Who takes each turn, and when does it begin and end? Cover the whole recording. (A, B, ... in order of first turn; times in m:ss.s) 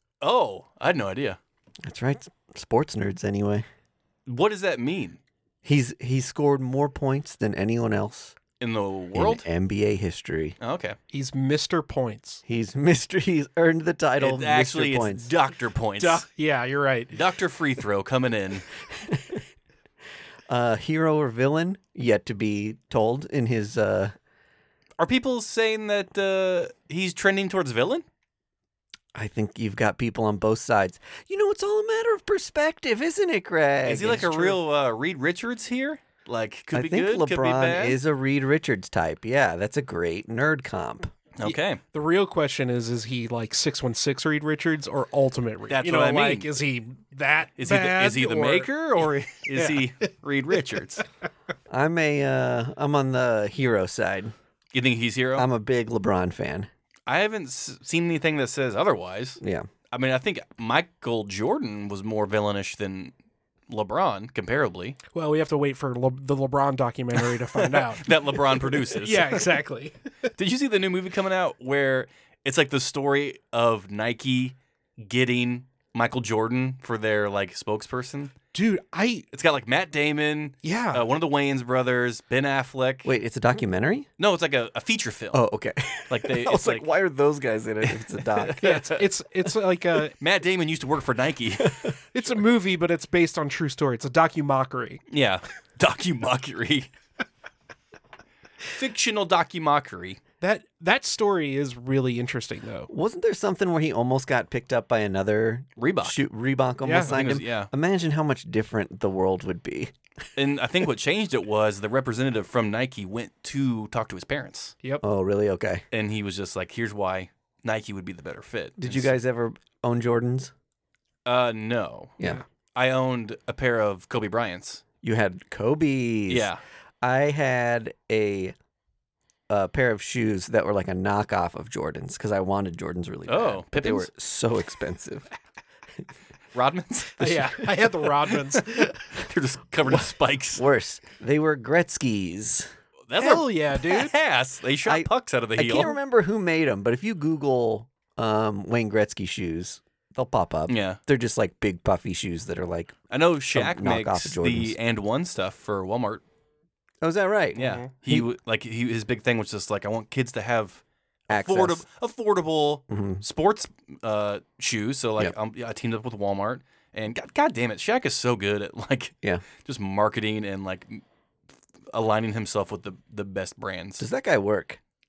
0:00.2-0:01.4 A
0:01.8-0:03.6 B
0:04.3-0:05.2 A
0:05.6-0:08.4 B
0:08.6-0:09.4 A
0:09.1-0:10.6 B
0:10.6-0:11.0 A
0:11.1-0:12.4 C
0:12.4-0:15.3 B
0:14.2-0:16.2 A
0:16.0-0:17.2 C
0:17.1-0:18.7 A
0:19.0-0:19.4 B
0:20.5-0:24.1 B
0:25.0-0:28.0 A
0:29.1-0:34.6 B
0:33.8-0:38.0 A
0:36.7-0:41.2 B
0:41.4-0:41.8 A
0:41.9-0:48.7 C
0:45.7-0:46.5 A
0:47.6-0:51.0 A
0:49.5-0:49.8 C
0:51.7-0:54.3 B
0:54.7-0:55.4 A
0:55.4-0:56.7 B
0:57.1-0:59.4 A
0:59.4-0:59.7 B
0:59.9-1:03.1 A
1:03.7-1:05.0 A
1:05.1-1:10.3 C
1:07.3-1:09.5 A
1:10.4-1:18.3 A
1:18.5-1:19.2 C
1:19.3-1:23.1 A
1:20.6-1:21.0 C
1:23.0-1:24.1 B
1:24.2-1:25.4 A
1:25.3-1:28.6 B
1:26.1-1:26.8 A
1:27.8-1:29.0 A
1:28.6-1:30.1 C
1:30.2-1:31.9 A
1:31.6-1:31.9 B
1:32.1-1:35.0 C
1:35.1-1:36.9 A
1:38.6-1:40.2 A
1:40.4-1:42.9 C
1:42.9-1:49.9 B
1:45.8-1:46.2 A
1:46.8-1:47.2 C
1:47.0-1:47.7 A
1:50.4-1:54.7 A
1:55.0-1:55.8 B
1:55.9-1:59.1 A
1:58.8-2:00.5 B
2:01.2-2:02.2 A
2:02.7-2:04.8 A
2:05.0-2:06.5 B
2:06.3-2:06.6 A
2:07.0-2:08.5 B
2:09.5-2:15.2 B
2:13.3-2:14.1 A
2:16.5-2:17.9 A
2:17.2-2:19.0 C
2:19.1-2:20.6 A
2:19.8-2:22.7 B
2:23.1-2:25.9 A
2:23.2-2:24.1 C
2:24.8-2:33.0 B
2:30.7-2:31.0 A
2:33.1-2:36.2 A
2:33.5-2:34.8 B
2:37.0-2:38.3 B
2:37.6-2:37.9 C
2:37.6-2:51.0 A
2:41.3-2:41.8 B
2:42.9-2:43.2 B
2:51.9-2:54.0 A
2:54.0-2:54.8 B